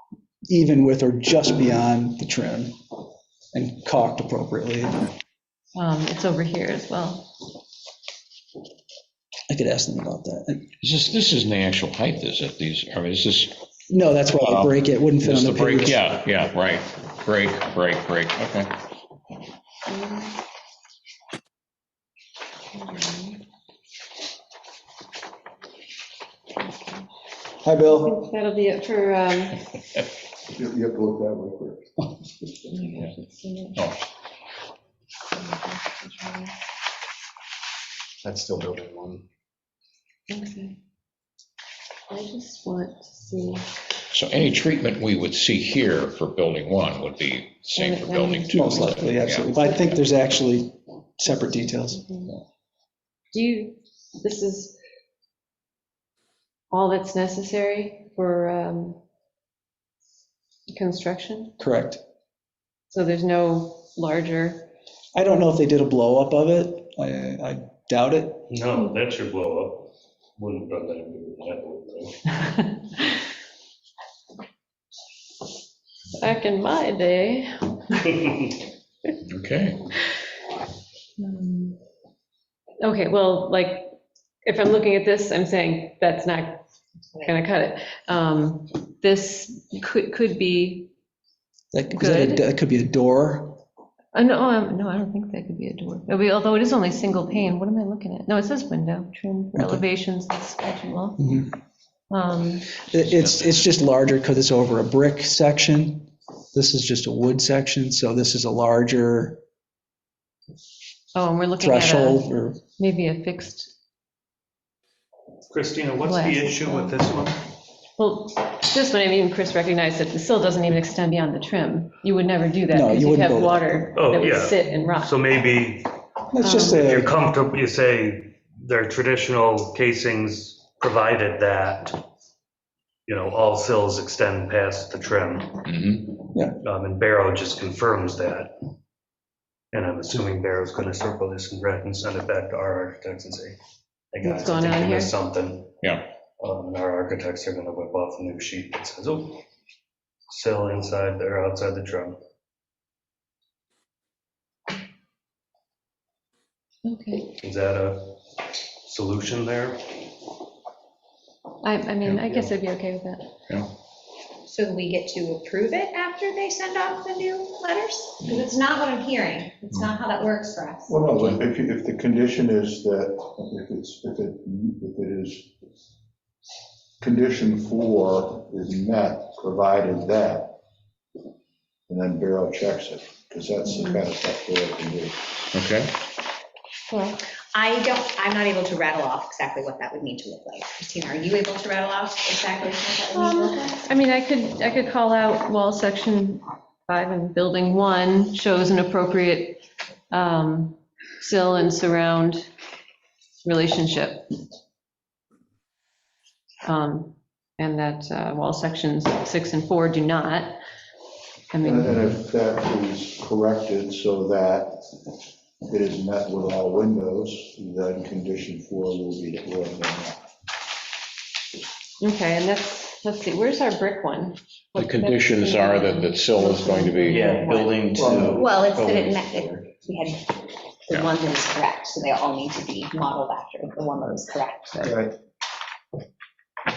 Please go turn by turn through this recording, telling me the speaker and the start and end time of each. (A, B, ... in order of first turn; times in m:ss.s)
0:00.5-0:02.7 A
0:03.5-0:05.1 A
0:05.7-0:07.3 B
0:09.5-0:10.7 A
0:10.8-0:13.5 C
0:13.9-0:16.0 A
0:14.4-0:18.7 C
0:19.9-0:20.3 B
0:22.7-0:23.4 B
0:26.6-0:27.0 B
0:27.6-0:28.1 A
0:27.8-0:29.6 B
0:30.5-0:32.1 D
0:32.7-0:33.8 B
0:35.3-0:36.5 B
0:38.2-0:39.2 E
0:40.3-0:40.8 B
0:42.1-0:43.6 B
0:44.1-0:48.6 C
0:47.8-0:50.0 B
0:48.5-0:52.0 A
0:49.1-0:49.5 C
0:51.3-0:52.3 B
0:53.3-0:54.8 B
0:56.7-0:59.0 B
1:00.7-1:01.5 B
1:01.6-1:02.0 A
1:02.9-1:04.7 B
1:05.1-1:08.5 A
1:08.5-1:12.2 F
1:12.5-1:12.8 B
1:16.2-1:18.1 B
1:19.3-1:19.8 C
1:21.2-1:21.8 B
1:22.8-1:26.6 B
1:27.2-1:30.9 B
1:31.7-1:33.6 A
1:31.9-1:32.4 B
1:34.1-1:41.2 B
1:39.6-1:39.8 A
1:41.2-1:41.5 A
1:42.1-1:42.7 B
1:42.9-1:49.4 A
1:51.1-1:53.7 B
1:51.6-1:52.6 A
1:55.5-1:57.4 F
1:56.0-1:57.0 B
1:58.0-2:05.2 B
2:02.7-2:03.8 A
2:03.9-2:05.9 F
2:06.3-2:07.2 A
2:06.4-2:06.8 B
2:06.7-2:12.0 F
2:13.1-2:15.6 F
2:15.6-2:16.2 C
2:16.6-2:18.5 F
2:19.7-2:23.6 F
2:24.1-2:25.7 F
2:24.2-2:25.2 B
2:25.8-2:26.1 C
2:26.4-2:29.4 F
2:30.3-2:32.2 F
2:36.8-2:37.3 B
2:37.4-2:38.1 F
2:38.8-2:39.9 F
2:41.6-2:43.3 B
2:44.4-2:51.0 G
2:50.9-2:55.5 D
2:57.0-3:00.6 D
3:01.9-3:05.2 D
3:03.7-3:04.0 B
3:05.5-3:05.9 C
3:06.9-3:07.2 B
3:07.5-3:13.8 G
3:13.1-3:22.5 B
3:23.4-3:24.3 B
3:26.6-3:30.6 B
3:31.5-3:32.0 B
3:31.6-3:35.0 D
3:35.6-3:40.2 D
3:42.0-3:47.9 B
3:44.8-3:47.3 C
3:47.0-3:49.7 E
3:48.2-3:54.8 G
3:54.8-3:55.1 D